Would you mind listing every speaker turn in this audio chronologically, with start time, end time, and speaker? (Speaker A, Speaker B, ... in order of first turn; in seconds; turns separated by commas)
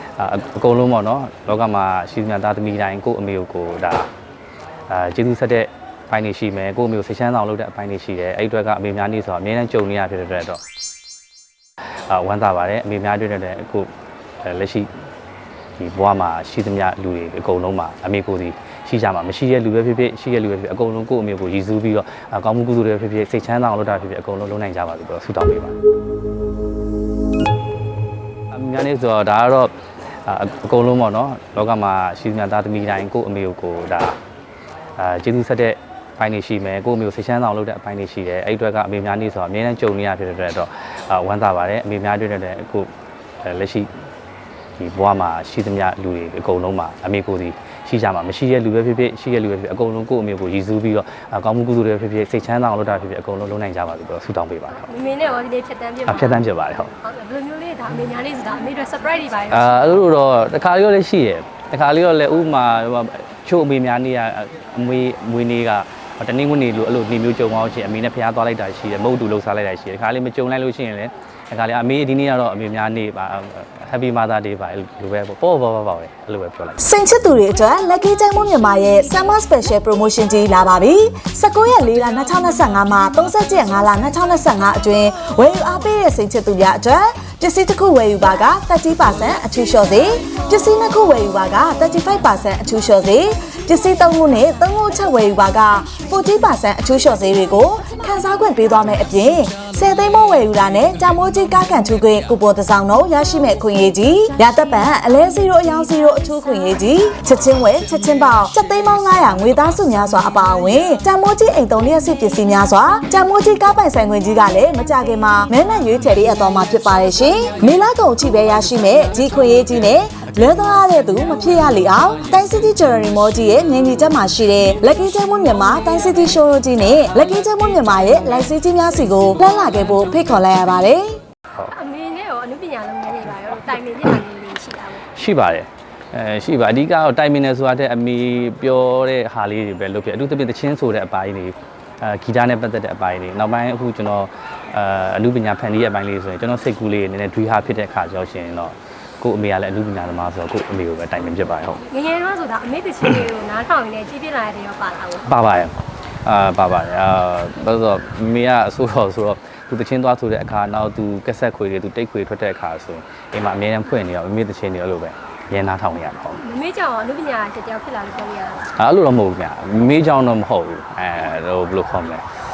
Speaker A: 0.2-4.1, Speaker A: 4.9-10.6, Speaker A: 12.1-13.9, Speaker A: 14.4-14.9, Speaker A: 15.8-25.8, Speaker A: 28.5-29.7, Speaker A: 30.2-34.2, Speaker A: 35.0-42.9, Speaker A: 43.4-43.9, Speaker A: 44.8-54.9, Speaker B: 54.7-60.0, Speaker A: 56.0-56.9, Speaker A: 59.5-76.8, Speaker C: 76.8-131.2, Speaker B: 131.6-135.1, Speaker A: 135.1-151.8, Speaker B: 151.9-155.3, Speaker A: 155.2-166.4, Speaker B: 166.4-168.7, Speaker A: 168.7-172.2